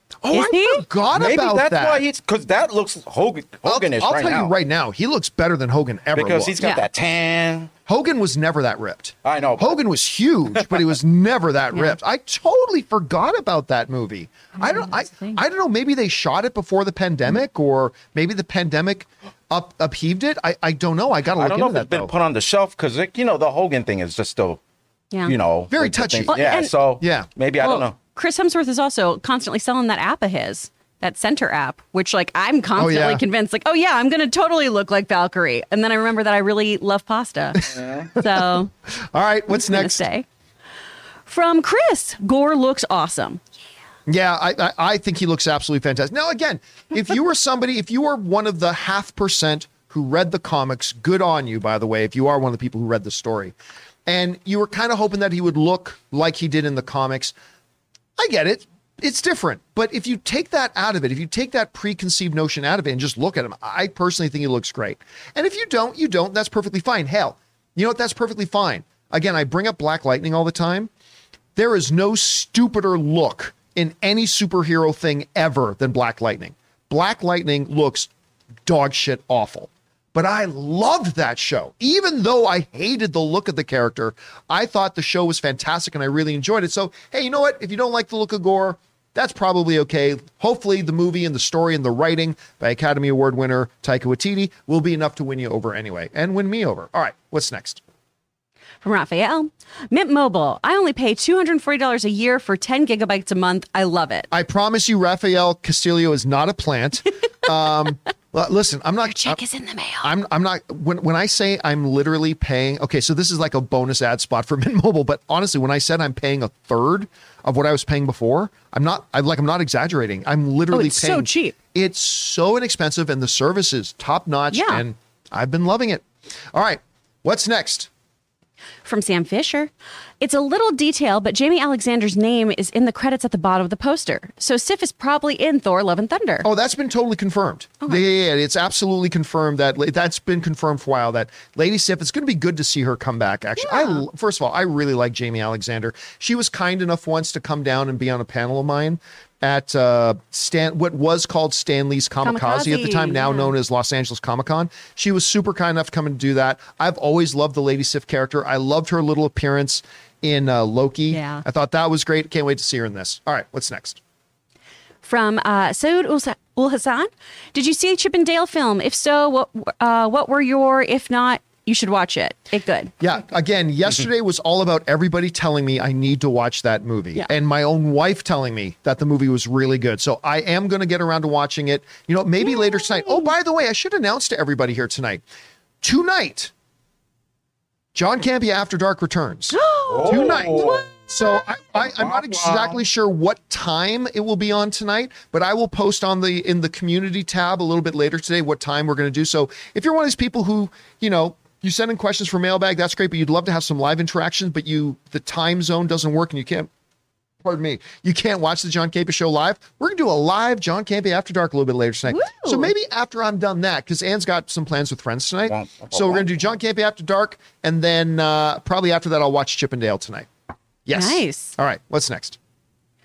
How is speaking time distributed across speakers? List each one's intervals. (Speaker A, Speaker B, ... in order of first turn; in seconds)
Speaker A: 0.2-2.0, 3.6-6.6, 7.9-22.1, 25.7-26.4, 27.0-27.3, 32.8-33.2, 37.5-40.0, 44.1-53.5, 54.0-57.3, 58.2-70.9, 71.5-78.1, 78.6-97.8, 104.3-109.4, 110.0-127.9, 136.4-164.0, 173.0-185.2, 185.8-186.5, 187.9-206.7, 207.4-220.3, 220.8-222.4
Speaker B: 0.3-0.8, 14.6-15.4, 26.3-26.7, 27.6-38.7, 39.5-40.3, 41.3-43.4, 98.8-104.3, 109.0-110.1, 120.7-121.5, 124.5-124.8, 128.8-136.4, 143.6-144.0, 152.2-153.5, 161.1-161.4, 165.0-172.9, 182.7-183.2, 189.5-190.8, 212.1-212.7, 220.9-221.5
Speaker C: 1.1-4.5, 6.1-7.7, 9.2-9.7, 21.4-24.6, 25.2-27.9, 189.9-191.1, 191.8-192.8, 215.5-216.3